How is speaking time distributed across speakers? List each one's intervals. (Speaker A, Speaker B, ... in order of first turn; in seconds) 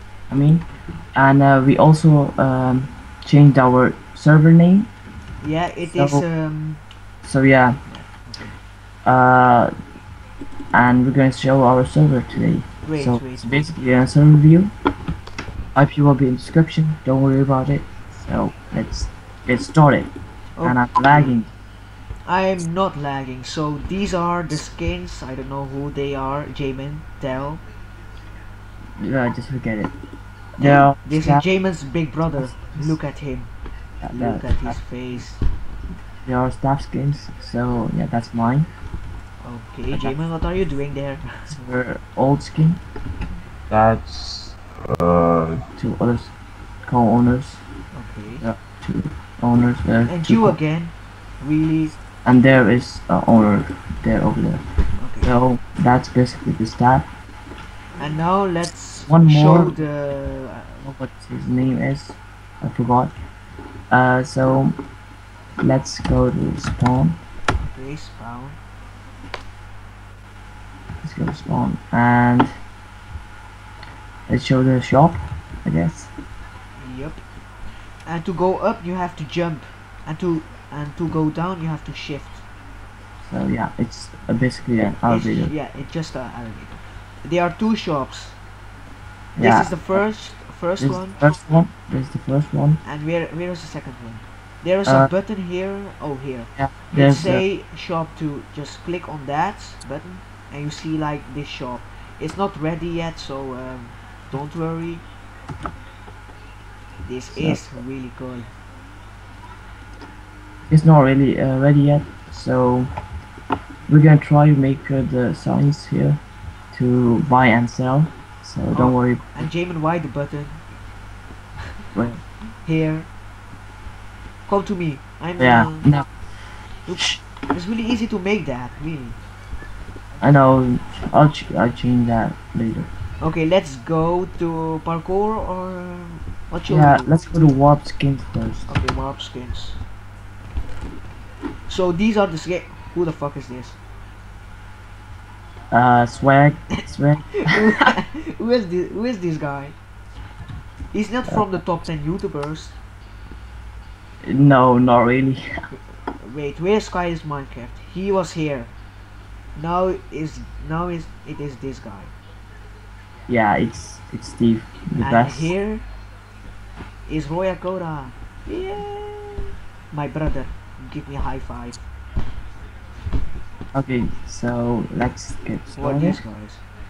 Speaker A: 0.3-4.9, 5.8-6.2, 7.2-7.8, 9.0-9.7, 10.7-14.7, 15.7-20.1, 20.6-21.5, 29.0-29.9, 30.6-31.4, 32.4-33.0, 34.0-34.8, 36.2-38.7, 41.5-42.8, 45.8-46.3, 46.8-47.6, 48.4-50.6, 52.2-54.6, 55.2-57.1, 59.1-59.8, 60.8-63.1, 63.9-64.7, 65.6-67.2, 71.0-72.5, 74.3-76.1, 83.2-85.5, 89.4-90.0, 90.8-92.8, 96.6-97.4, 107.3-107.7, 110.7-112.9, 113.9-116.2, 116.7-119.5, 121.9-122.2, 125.4-126.0, 130.2-132.9, 136.7-138.7, 145.7-147.9, 154.2-155.4, 163.3-165.5, 173.7-176.2
Speaker B: 5.4-6.8, 7.9-8.6, 12.8-13.7, 20.6-21.4, 22.2-27.6, 30.6-33.5, 34.1-35.4, 39.4-41.2, 47.9-48.4, 50.1-51.9, 55.0-55.3, 58.0-60.8, 67.6-68.6, 76.8-77.2, 78.0-82.4, 85.0-88.4, 89.4-91.2, 92.8-105.0, 107.0-108.5, 118.7-120.6, 122.6-123.1, 124.5-125.9, 126.9-129.2, 133.2-137.4, 138.7-139.8, 141.7-143.8, 147.4-149.8, 150.9-152.8, 156.2-158.7, 159.6-162.1, 165.0-165.8, 167.1-171.8, 175.7-176.6
Speaker C: 43.7-45.6